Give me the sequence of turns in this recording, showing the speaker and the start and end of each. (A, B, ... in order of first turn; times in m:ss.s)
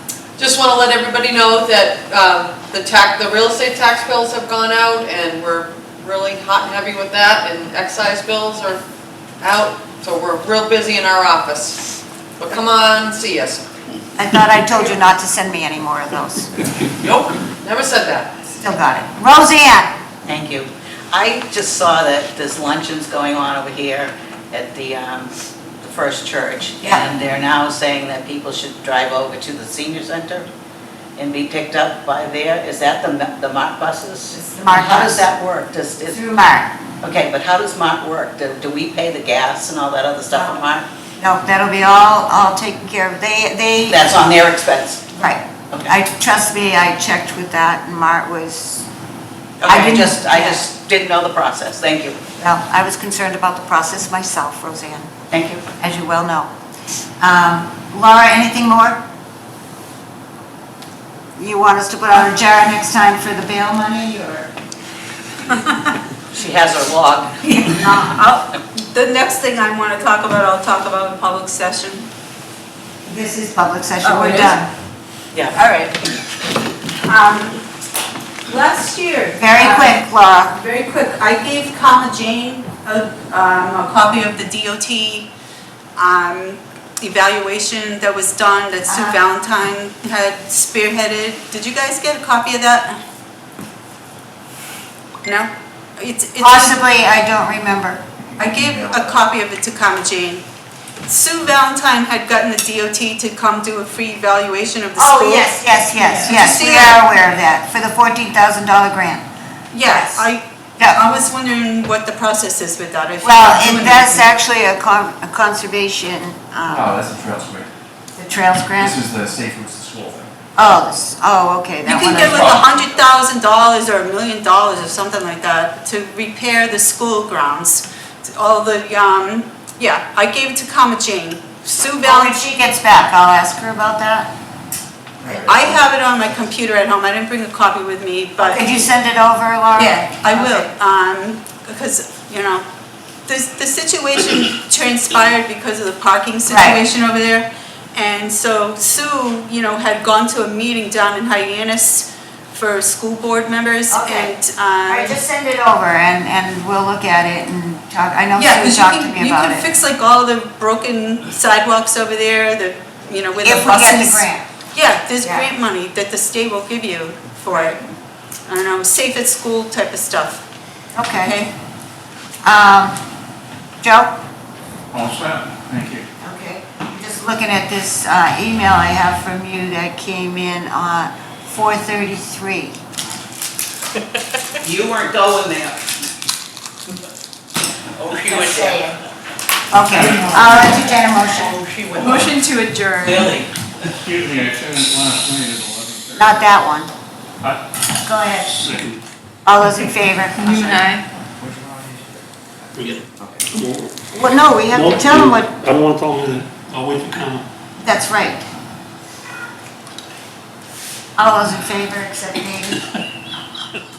0:00.4-0:08.8 A
0:09.4-0:11.8 A
0:12.4-0:13.6 A
0:14.2-0:16.5 B
0:17.0-0:18.3 A
0:18.5-0:19.9 B
0:20.2-0:25.3 C
0:25.8-0:30.5 C
0:31.2-0:36.2 C
0:34.3-0:35.2 B
0:36.0-0:36.7 B
0:37.0-0:40.8 C
0:40.3-0:40.6 B
0:41.2-0:44.0 B
0:43.9-0:45.0 C
0:45.1-0:48.9 B
0:49.6-0:52.2 C
0:49.6-0:50.6 B
0:52.4-0:55.1 B
0:55.3-0:55.7 C
0:55.8-0:56.5 B
0:57.2-0:59.0 B
1:01.4-1:04.5 B
1:06.3-1:07.5 C
1:07.5-1:12.1 D
1:13.0-1:14.7 B
1:14.0-1:14.6 D
1:15.3-1:15.9 C
1:17.0-1:17.6 D
1:18.5-1:25.3 D
1:19.4-1:20.6 B
1:26.0-1:33.0 D
1:28.9-1:29.2 B
1:35.2-1:36.8 D
1:36.4-1:38.0 B
1:38.4-1:40.4 D
1:41.0-1:47.0 D
1:45.0-1:49.2 B
1:49.7-1:54.3 D
1:49.8-1:51.0 B
1:53.2-1:56.9 B
1:56.7-1:57.7 E
1:58.1-1:59.0 B
1:58.8-2:00.3 E
2:00.5-2:02.6 B
2:01.8-2:12.4 D
2:02.2-2:02.6 E
2:12.0-2:14.3 B
2:15.2-2:15.7 B
2:15.3-2:18.7 D
2:18.4-2:20.7 B
2:19.8-2:22.6 D
2:23.3-2:35.2 D
2:26.5-2:26.8 B
2:33.9-2:34.4 B
2:34.9-2:39.7 B
2:38.4-2:47.8 D
2:43.4-2:44.4 B
2:45.2-2:45.5 B
2:48.5-2:50.4 D
2:50.9-2:51.4 B
2:51.2-2:51.5 D
2:52.4-2:53.0 B
2:53.8-2:54.1 B
2:54.9-2:56.0 F
2:56.2-3:02.8 B
3:04.6-3:05.8 C
3:08.0-3:08.8 C
3:08.2-3:09.0 B
3:09.7-3:11.6 B
3:09.9-3:10.9 F
3:11.4-3:12.3 C
3:13.0-3:13.5 C
3:14.0-3:16.4 F
3:16.1-3:16.9 B
3:18.0-3:18.7 B
3:18.6-3:19.0 G
3:19.4-3:21.0 B
3:22.7-3:23.9 G
3:24.1-3:25.6 B
3:24.7-3:27.4 G
3:27.8-3:28.4 B
3:31.2-3:32.8 B